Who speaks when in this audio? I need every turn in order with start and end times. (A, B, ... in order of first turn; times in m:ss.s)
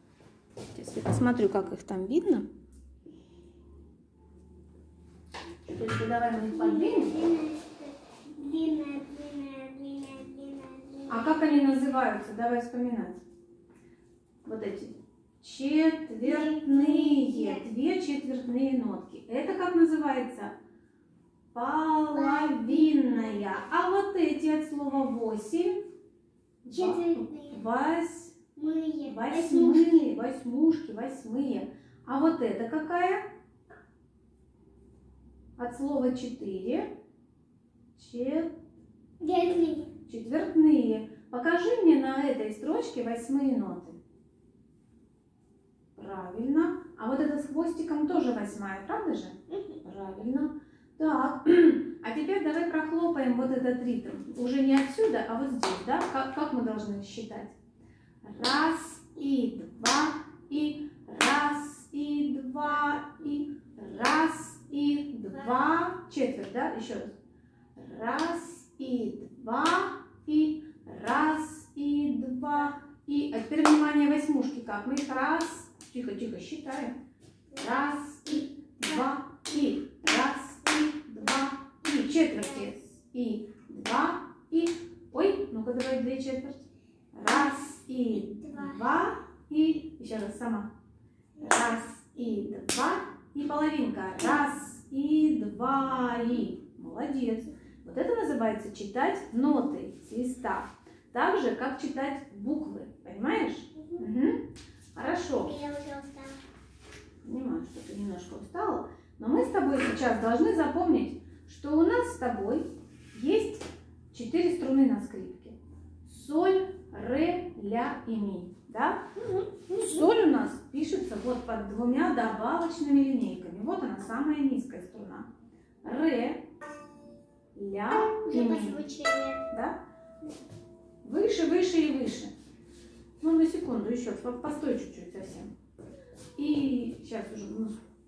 0:00.7-0:02.5 A
0:05.6-0:07.1 A
0:06.4-0:11.3 B
0:11.1-0:13.2 A
0:14.4-0:20.5 A
0:16.2-0:17.7 B
0:21.5-0:25.8 A
0:22.1-0:23.6 B
0:26.6-0:28.4 A
0:26.7-0:27.6 B
0:28.6-0:30.2 B
0:29.0-0:33.2 A
0:35.6-0:36.9 A
0:38.0-0:38.5 A
0:39.2-0:39.9 B
0:40.0-0:44.0 A
0:46.0-0:57.6 A
0:49.5-0:49.8 B
0:58.2-1:07.1 A
1:07.8-1:16.9 A
1:17.6-1:30.7 A
1:28.4-1:28.8 B
1:31.4-1:44.4 A
1:43.8-1:44.0 B
1:44.9-1:45.5 A
1:45.4-1:46.4 B
1:47.2-1:59.1 A
1:59.2-2:00.1 B
1:59.7-2:05.3 A
2:05.8-2:06.4 A
2:07.5-2:08.8 A
2:08.3-2:09.4 B
2:09.5-2:09.8 A
2:11.0-2:12.3 A
2:13.2-2:15.5 A
2:16.4-2:17.8 A